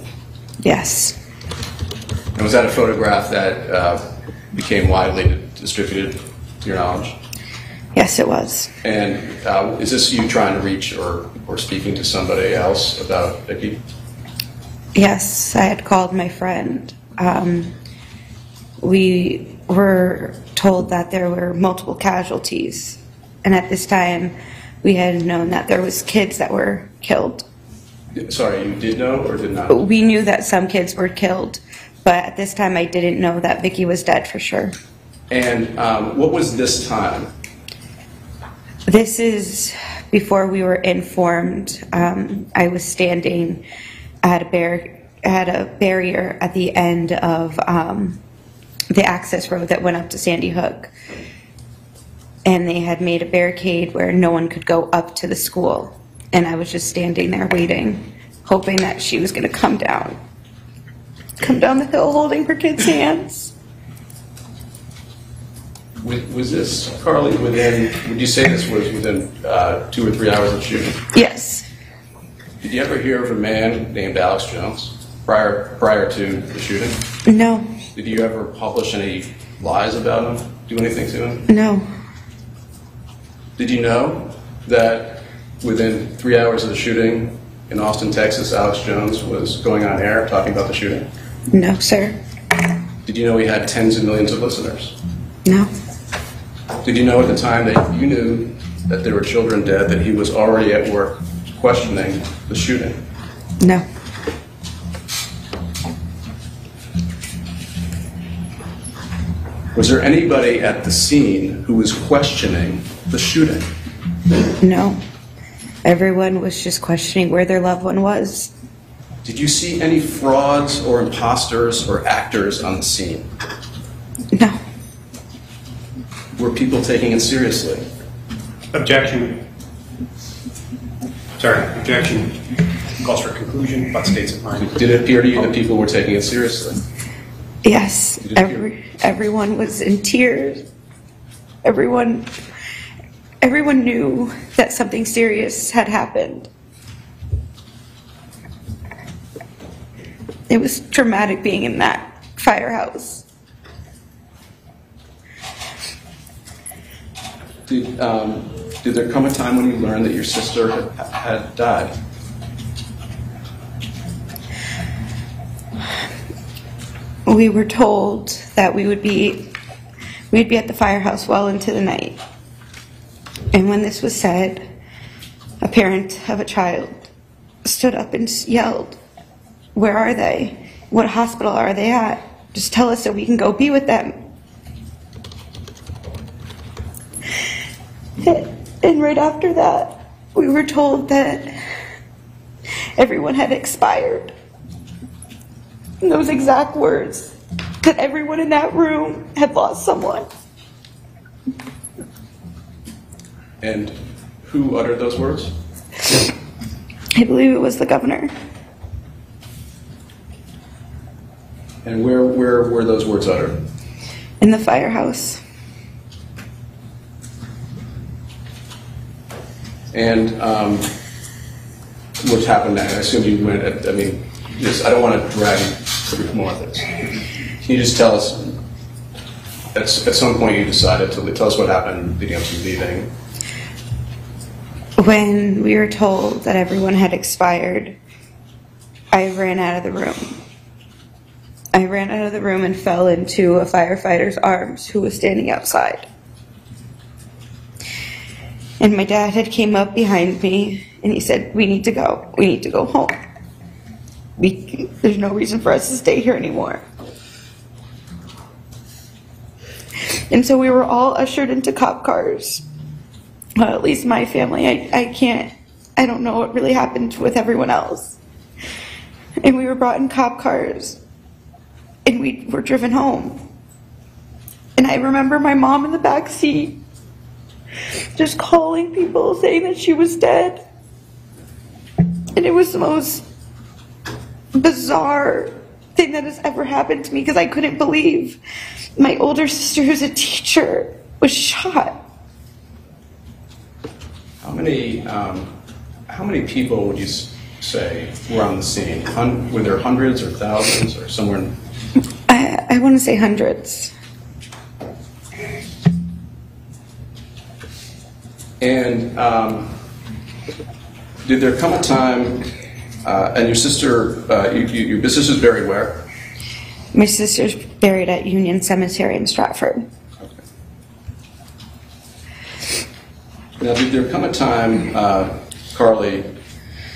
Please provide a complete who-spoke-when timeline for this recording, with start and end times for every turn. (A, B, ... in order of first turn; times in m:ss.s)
0:00.6-0:01.2 A
0:02.4-0:04.0 B
0:04.5-0:07.2 B
0:07.9-0:08.7 A
0:08.8-0:13.8 B
0:14.9-0:17.7 A
0:18.8-0:27.4 A
0:28.2-0:29.8 B
0:29.7-0:34.7 A
0:35.3-0:37.3 B
0:38.9-0:43.6 A
0:44.2-0:48.2 A
0:48.9-0:50.9 A
0:52.4-1:00.2 A
1:01.4-1:03.5 A
1:06.0-1:11.0 B
1:11.1-1:11.6 A
1:12.6-1:17.0 B
1:17.2-1:17.7 A
1:17.9-1:21.5 B
1:21.5-1:21.8 A
1:23.6-1:31.1 B
1:31.5-1:32.2 A
1:33.0-1:35.0 B
1:35.4-1:35.7 A
1:36.8-1:43.0 B
1:49.7-1:53.7 B
1:54.6-1:55.0 A
1:55.8-1:58.5 A
1:59.2-2:03.3 B
2:04.3-2:04.6 A
2:06.4-2:07.8 B
2:08.7-2:09.4 C
2:11.4-2:12.4 C
2:13.0-2:14.7 C
2:14.6-2:16.8 B
2:17.6-2:20.6 A
2:18.2-2:18.6 B
2:21.6-2:22.3 A
2:23.4-2:26.5 A
2:30.5-2:33.2 A
2:37.7-2:41.9 B
2:47.2-2:49.5 A
2:50.3-2:52.2 A
2:53.5-2:54.6 A
2:55.6-2:56.9 A
2:57.6-2:59.0 A
2:59.7-3:04.2 A
3:08.2-3:11.5 A
3:13.0-3:14.3 A
3:16.0-3:20.3 A
3:23.6-3:25.5 B
3:27.1-3:28.3 A
3:31.8-3:33.6 B
3:34.4-3:35.4 A
3:39.9-3:40.9 B
3:42.2-3:47.0 B
3:47.6-3:48.6 B
3:49.7-3:53.1 B
3:55.0-3:58.0 A
3:59.1-4:00.4 A
4:01.7-4:06.1 A
4:08.8-4:13.2 A
4:14.4-4:16.8 A
4:20.1-4:22.6 A
4:23.6-4:28.2 A
4:29.4-4:31.0 A
4:32.0-4:33.4 A
4:34.8-4:36.8 A
4:38.2-4:40.6 A
4:42.3-4:43.2 A
4:44.5-4:48.4 A
4:49.0-4:52.0 A
4:54.4-4:55.5 B
4:56.1-5:01.5 B
5:02.3-5:03.9 A
5:08.6-5:09.8 B
5:11.2-5:12.5 B
5:13.0-5:16.1 B
5:16.9-5:19.9 A
5:23.6-5:26.3 B